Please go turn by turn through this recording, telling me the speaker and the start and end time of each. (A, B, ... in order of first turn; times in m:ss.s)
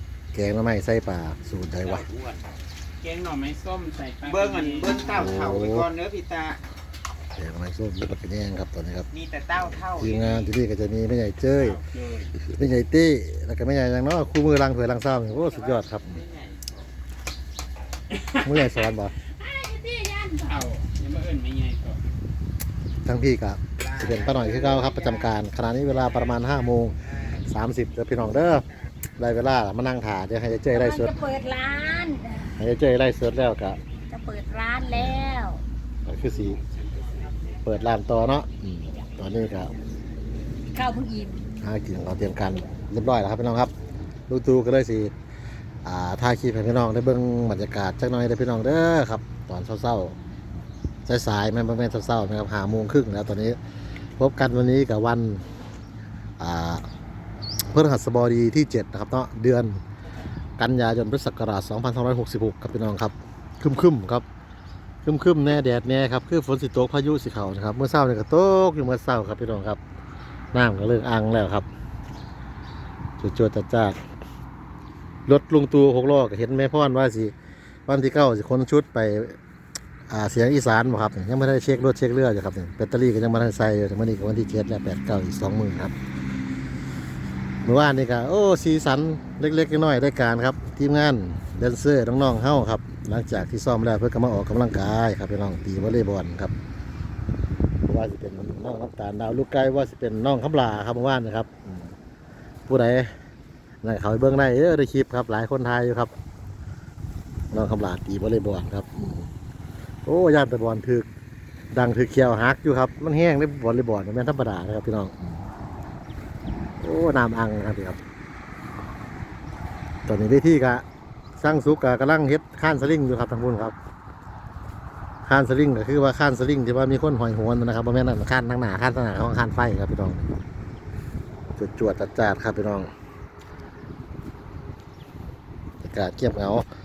0:00.3-0:02.0 A
0:01.8-0:02.5 B
0:03.0-0:05.4 C
0:04.2-0:06.6 B
0:05.1-0:05.9 A
0:07.4-0:09.1 A
0:09.1-0:10.5 B
0:09.9-0:11.8 A
0:11.5-0:12.3 C
0:12.4-0:16.2 A
0:15.2-0:16.8 B
0:18.4-0:19.1 A
0:19.3-0:22.0 C
0:23.0-0:28.6 A
0:23.8-0:25.4 B
0:25.9-0:26.6 B
0:29.2-0:31.2 A
0:30.8-0:32.5 D
0:32.5-0:33.8 A
0:34.1-0:35.6 D
0:34.9-0:35.4 A
0:36.0-0:36.6 A
0:36.8-0:37.4 B
0:37.6-0:39.7 A
0:40.7-0:41.5 D
0:41.6-0:43.7 A
0:44.3-0:45.1 A
0:45.8-0:50.2 A
0:51.0-0:53.6 A
0:54.2-0:55.4 A
0:56.4-0:56.8 A
0:57.7-0:59.8 A
1:00.6-1:04.2 A
1:05.0-1:09.8 A
1:10.5-1:11.6 A
1:13.2-1:14.0 A
1:15.2-1:17.3 A
1:17.9-1:19.4 A
1:20.1-1:25.9 A
1:27.6-1:36.5 A
1:37.8-1:41.9 A
1:42.7-1:43.1 A
1:43.8-1:46.1 A
1:47.5-1:49.3 A
1:50.0-1:51.1 A
1:51.7-1:55.4 A
1:56.8-1:58.0 A
2:00.0-2:00.8 A
2:01.4-2:03.7 A
2:05.2-2:10.4 A
2:11.6-2:12.9 A
2:15.8-2:16.6 A